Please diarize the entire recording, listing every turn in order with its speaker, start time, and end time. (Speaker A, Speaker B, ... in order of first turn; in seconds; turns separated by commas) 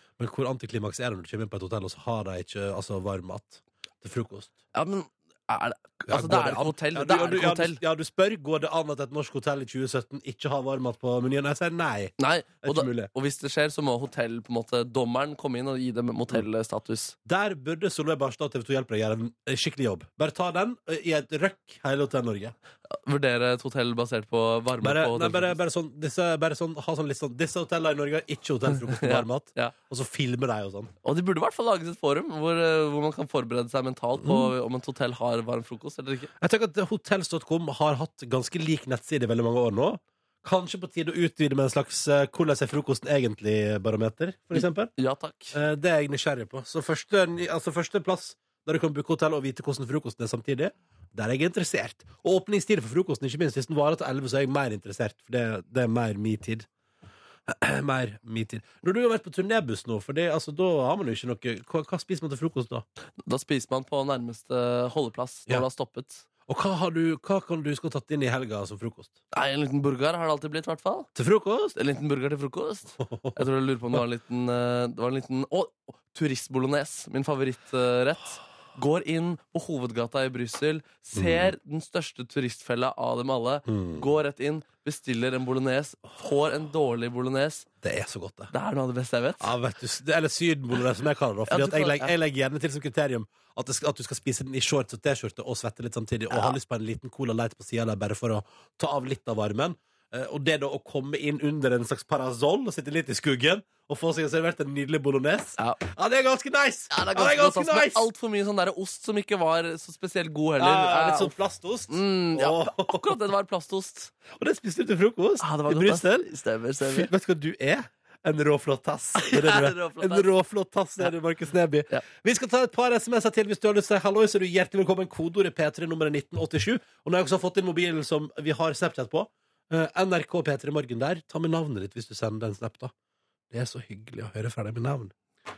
Speaker A: 0.2-4.5, Speaker B: 4.7-7.8, Speaker A: 6.1-13.1, Speaker B: 12.2-17.1, Speaker A: 17.2-22.5, Speaker B: 22.9-25.6, Speaker A: 24.8-30.9, Speaker B: 28.8-29.7, Speaker B: 31.0-36.3, Speaker A: 34.2-34.5, Speaker A: 36.4-44.9, Speaker B: 44.5-45.5, Speaker A: 45.5-56.7, Speaker A: 57.5-62.8, Speaker B: 63.2-66.2, Speaker A: 66.5-69.1, Speaker B: 69.3-71.1, Speaker A: 71.1-71.8, Speaker B: 71.7-87.7, Speaker A: 73.0-74.0, Speaker A: 81.1-81.5, Speaker A: 83.7-84.1, Speaker A: 87.8-88.5, Speaker B: 88.5-89.5, Speaker A: 89.4-108.1, Speaker B: 91.5-92.1, Speaker B: 96.3-96.5, Speaker B: 106.9-111.3, Speaker A: 110.6-113.2, Speaker B: 111.9-114.1, Speaker A: 114.3-132.9, Speaker B: 115.4-117.1, Speaker B: 119.2-120.3, Speaker A: 133.5-135.1